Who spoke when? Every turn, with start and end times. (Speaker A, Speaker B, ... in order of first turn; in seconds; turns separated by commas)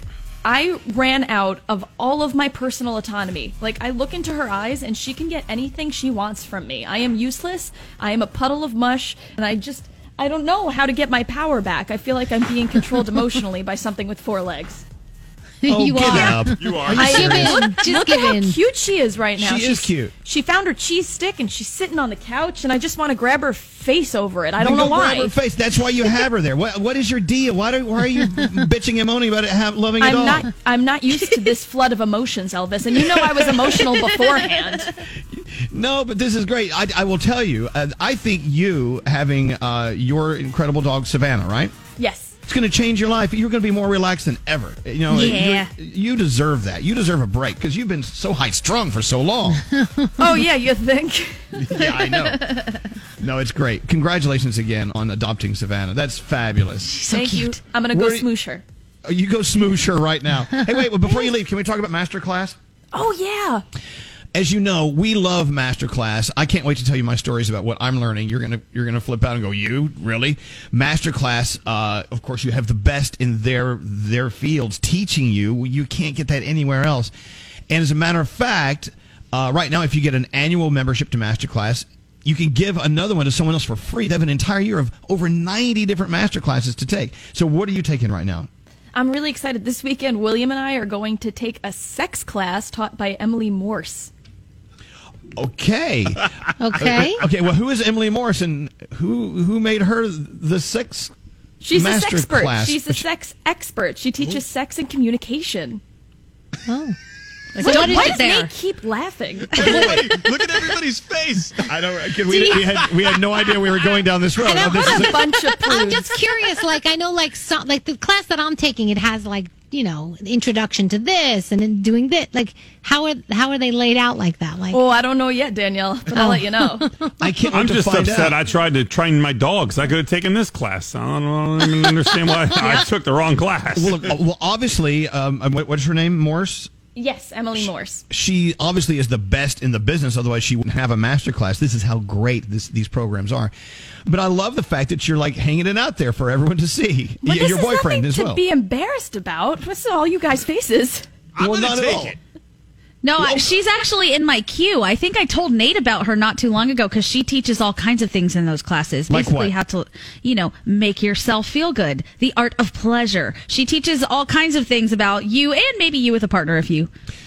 Speaker A: 0.4-14.8, Speaker B: 15.6-18.6, Speaker C: 15.7-17.6, Speaker D: 16.6-17.6, Speaker A: 16.9-25.3, Speaker C: 19.4-20.1, Speaker C: 24.6-30.5, Speaker A: 30.0-35.0, Speaker C: 35.3-41.7, Speaker A: 42.0-42.3, Speaker C: 42.5-49.6, Speaker E: 45.1-45.7, Speaker B: 49.8-50.1, Speaker A: 50.2-52.4, Speaker C: 51.5-52.5, Speaker C: 53.2-56.9, Speaker E: 56.9-57.6, Speaker A: 57.1-58.6, Speaker C: 57.9-58.3, Speaker C: 59.0-62.5, Speaker A: 62.9-63.6, Speaker C: 64.3-77.1, Speaker C: 77.7-88.5, Speaker A: 88.9-94.1, Speaker C: 95.3-96.3, Speaker B: 96.6-97.2, Speaker C: 96.8-101.1, Speaker A: 101.6-105.8, Speaker C: 101.7-103.0, Speaker B: 106.7-107.0, Speaker B: 107.5-108.3, Speaker E: 107.6-108.5, Speaker A: 107.6-110.3, Speaker F: 109.6-111.5, Speaker C: 111.6-115.2, Speaker A: 112.3-112.8, Speaker B: 114.4-124.8, Speaker A: 114.6-116.1, Speaker A: 124.7-126.9, Speaker B: 126.1-127.3, Speaker C: 127.2-128.4, Speaker D: 127.5-133.9, Speaker C: 133.7-136.7, Speaker A: 136.9-138.0, Speaker C: 137.6-143.5, Speaker C: 144.1-148.4, Speaker A: 147.2-151.0, Speaker C: 151.4-152.2, Speaker F: 151.4-152.2, Speaker E: 153.0-166.9, Speaker C: 153.2-153.4, Speaker C: 159.1-159.6